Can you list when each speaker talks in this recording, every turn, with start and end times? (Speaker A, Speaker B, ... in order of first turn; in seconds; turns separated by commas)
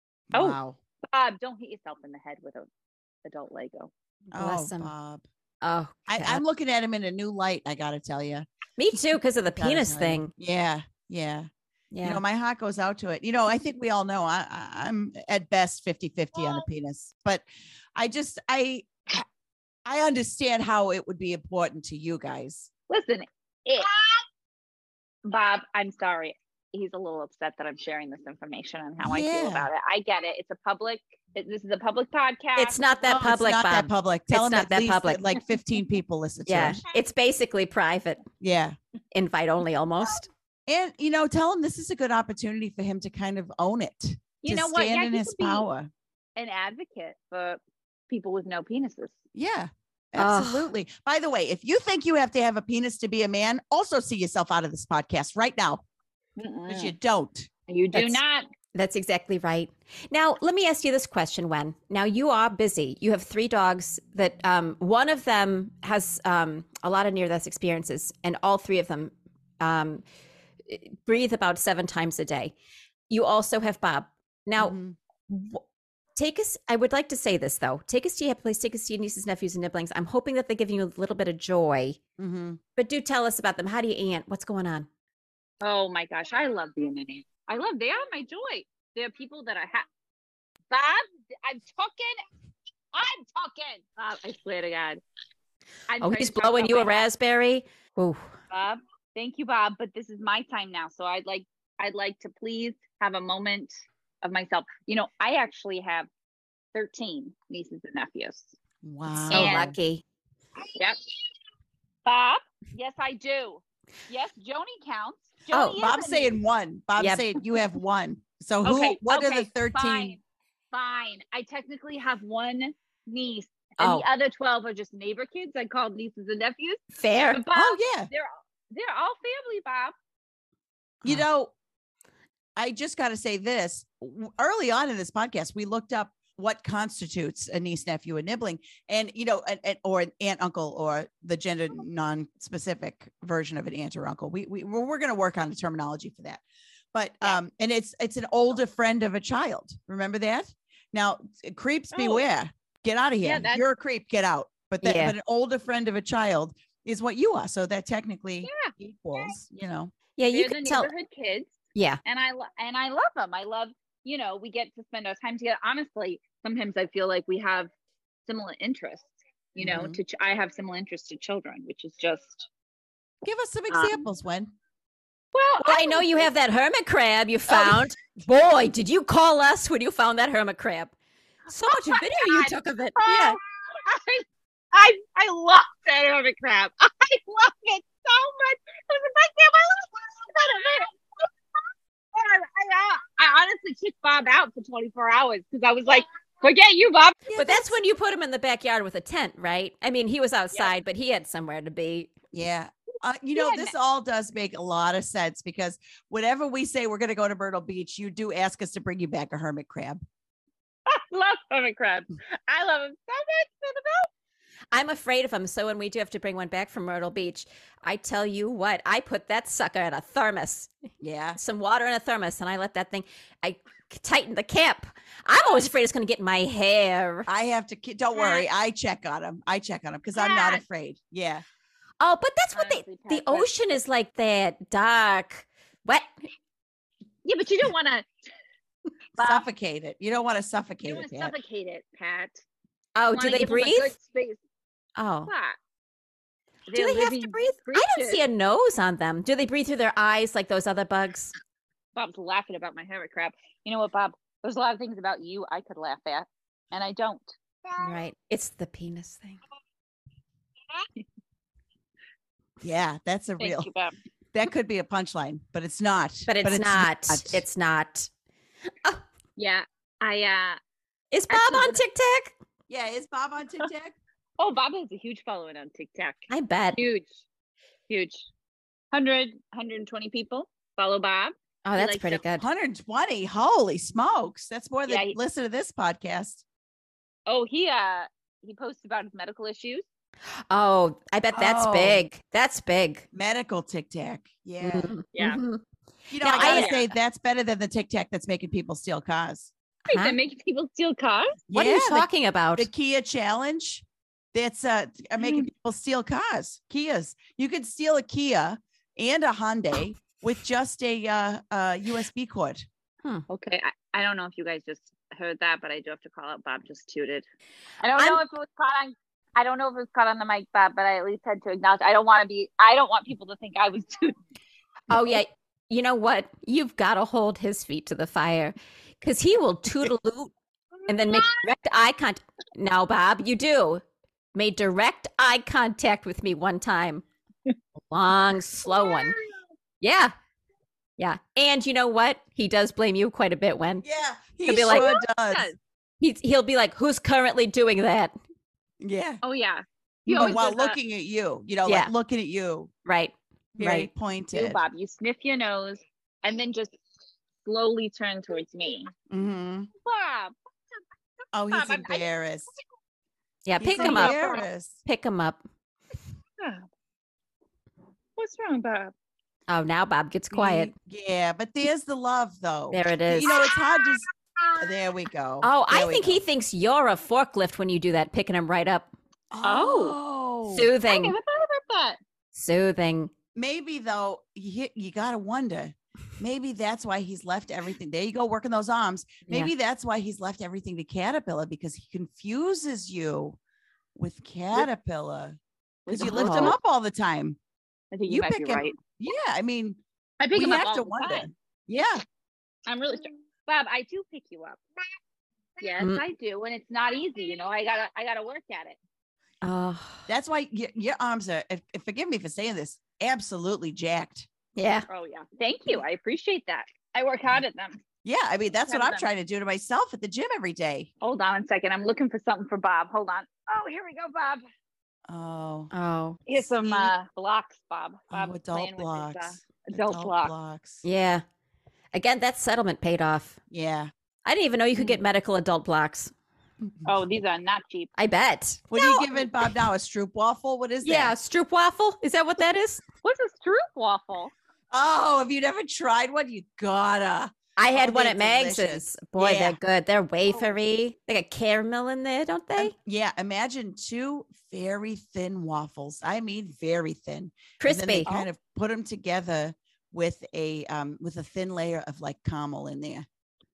Speaker A: 0.3-0.8, Speaker B: 0.3-2.7, Speaker B: 3.2-3.9, Speaker A: 4.3-5.2, Speaker C: 4.3-4.9, Speaker C: 5.6-6.4, Speaker A: 6.1-8.5, Speaker C: 8.8-10.3, Speaker A: 9.6-11.5, Speaker C: 11.9-12.2, Speaker A: 12.0-19.3, Speaker A: 19.9-22.7, Speaker B: 22.9-24.2, Speaker B: 25.2-32.8, Speaker A: 29.0-29.7, Speaker C: 32.6-35.2, Speaker A: 33.1-36.8, Speaker C: 36.5-38.2, Speaker A: 38.4-38.8, Speaker C: 39.1-40.3, Speaker A: 40.7-45.9, Speaker B: 44.4-45.7, Speaker B: 46.4-49.2, Speaker A: 49.3-55.8, Speaker C: 50.2-50.7, Speaker B: 56.4-56.9, Speaker A: 56.7-57.5, Speaker B: 57.7-58.5, Speaker C: 57.9-58.2, Speaker C: 58.7-70.0, Speaker C: 70.7-72.5, Speaker C: 73.1-74.8, Speaker A: 74.6-75.0, Speaker C: 75.3-75.6, Speaker C: 76.2-82.0, Speaker A: 82.2-82.6, Speaker C: 82.8-84.9, Speaker B: 85.6-89.9, Speaker B: 90.7-92.2, Speaker B: 92.9-95.0, Speaker B: 95.9-97.1, Speaker C: 96.0-98.3, Speaker B: 98.5-106.1, Speaker B: 106.7-108.5, Speaker A: 108.8-109.7, Speaker B: 109.3-109.7, Speaker C: 109.3-110.0, Speaker B: 110.7-111.0, Speaker B: 112.0-116.4, Speaker C: 115.5-115.8, Speaker A: 115.8-120.2, Speaker C: 117.0-117.3, Speaker B: 118.6-120.2, Speaker B: 120.7-126.8, Speaker C: 123.8-124.0, Speaker C: 127.0-127.4, Speaker B: 127.3-129.9, Speaker A: 127.5-128.1, Speaker A: 131.0-131.5, Speaker A: 132.6-146.4, Speaker A: 146.9-159.9, Speaker B: 151.9-152.2, Speaker B: 153.2-153.6, Speaker C: 154.8-155.2, Speaker B: 158.4-159.3, Speaker C: 160.2-160.9, Speaker B: 160.3-167.7, Speaker C: 161.8-162.0, Speaker B: 168.3-172.5, Speaker A: 169.6-170.0, Speaker A: 173.2-174.5, Speaker B: 173.7-174.1, Speaker B: 175.3-176.3, Speaker C: 175.6-180.9, Speaker C: 181.5-183.4, Speaker B: 181.7-191.3, Speaker B: 192.1-197.3, Speaker A: 197.3-197.7, Speaker C: 197.3-202.1, Speaker A: 202.3-210.0, Speaker B: 203.3-203.7, Speaker B: 210.9-214.1, Speaker C: 214.7-220.7, Speaker A: 221.0-221.4, Speaker C: 221.4-227.3, Speaker A: 227.3-231.4, Speaker B: 228.2-228.5, Speaker B: 230.2-230.6, Speaker C: 232.0-236.1, Speaker B: 232.5-233.5, Speaker B: 237.2-238.1, Speaker B: 239.2-239.4, Speaker A: 239.2-241.3, Speaker B: 240.8-242.4, Speaker C: 243.0-243.9, Speaker B: 243.1-244.4, Speaker C: 245.0-245.3, Speaker B: 245.3-245.6, Speaker B: 246.7-248.2, Speaker C: 246.7-251.3, Speaker B: 251.9-258.0, Speaker C: 257.8-259.4, Speaker B: 260.8-261.0, Speaker A: 262.6-263.7, Speaker B: 263.4-263.9, Speaker A: 264.3-267.4, Speaker C: 266.3-268.1, Speaker B: 269.4-270.6, Speaker C: 271.1-272.3, Speaker B: 271.3-271.8, Speaker A: 272.7-274.0, Speaker B: 274.4-277.1, Speaker C: 276.3-276.8, Speaker B: 277.9-278.3, Speaker B: 278.9-282.2, Speaker C: 281.6-282.4, Speaker A: 282.4-286.4, Speaker B: 284.9-285.2, Speaker B: 287.3-289.9, Speaker C: 290.5-293.1, Speaker A: 291.3-292.1, Speaker A: 293.1-294.9, Speaker C: 294.6-295.6, Speaker B: 295.1-295.4, Speaker A: 296.1-299.5, Speaker C: 296.2-296.7, Speaker B: 296.3-296.9, Speaker B: 299.9-301.4, Speaker C: 299.9-300.2, Speaker A: 301.5-312.7, Speaker C: 301.5-302.7, Speaker B: 305.2-305.5, Speaker B: 313.3-317.3, Speaker B: 317.8-324.2, Speaker C: 324.9-330.3, Speaker C: 330.9-337.1, Speaker C: 337.9-339.2, Speaker C: 339.8-340.1, Speaker C: 341.0-343.8, Speaker A: 343.8-345.5, Speaker C: 344.5-344.9, Speaker B: 344.5-345.5, Speaker C: 346.0-348.1, Speaker A: 348.8-349.2, Speaker B: 349.2-350.8, Speaker A: 350.1-352.7, Speaker C: 351.7-351.9, Speaker C: 352.9-353.9, Speaker A: 353.6-354.6, Speaker B: 354.3-356.8, Speaker B: 357.4-358.9, Speaker A: 359.1-359.7, Speaker B: 359.8-360.4, Speaker A: 361.3-362.5, Speaker B: 361.5-362.1, Speaker C: 363.5-364.3, Speaker A: 363.6-364.8, Speaker B: 363.8-364.5, Speaker C: 364.9-365.4, Speaker B: 366.4-366.6, Speaker B: 368.2-368.9, Speaker C: 369.5-370.7, Speaker A: 370.3-374.1, Speaker C: 372.7-373.4, Speaker B: 373.3-374.7, Speaker A: 374.6-376.2, Speaker C: 375.4-378.9, Speaker A: 379.3-380.7, Speaker B: 379.4-380.0, Speaker C: 380.5-381.2, Speaker B: 380.9-382.0, Speaker C: 382.3-383.1, Speaker A: 383.4-393.4, Speaker A: 394.0-397.4, Speaker B: 395.9-396.6, Speaker C: 396.0-396.5, Speaker B: 397.9-398.8, Speaker A: 398.1-399.8, Speaker B: 400.2-401.3, Speaker A: 400.3-402.0, Speaker B: 402.7-404.6, Speaker B: 405.6-408.8, Speaker C: 409.4-410.1, Speaker A: 410.1-414.3, Speaker C: 414.6-414.9, Speaker B: 414.9-417.8, Speaker A: 418.1-420.9, Speaker B: 418.7-419.1, Speaker B: 421.0-424.4, Speaker A: 425.1-425.7, Speaker C: 425.7-426.2, Speaker B: 426.3-430.3, Speaker A: 426.6-426.9, Speaker A: 428.1-430.9, Speaker C: 430.8-431.2, Speaker C: 431.9-433.4, Speaker A: 433.5-433.9, Speaker C: 434.2-436.1, Speaker A: 436.6-436.9, Speaker B: 436.9-437.9, Speaker C: 438.0-439.2, Speaker A: 438.7-441.1, Speaker C: 440.8-442.8, Speaker B: 443.0-444.3, Speaker A: 444.7-449.6, Speaker C: 447.6-452.7, Speaker A: 452.6-463.1, Speaker C: 457.6-458.2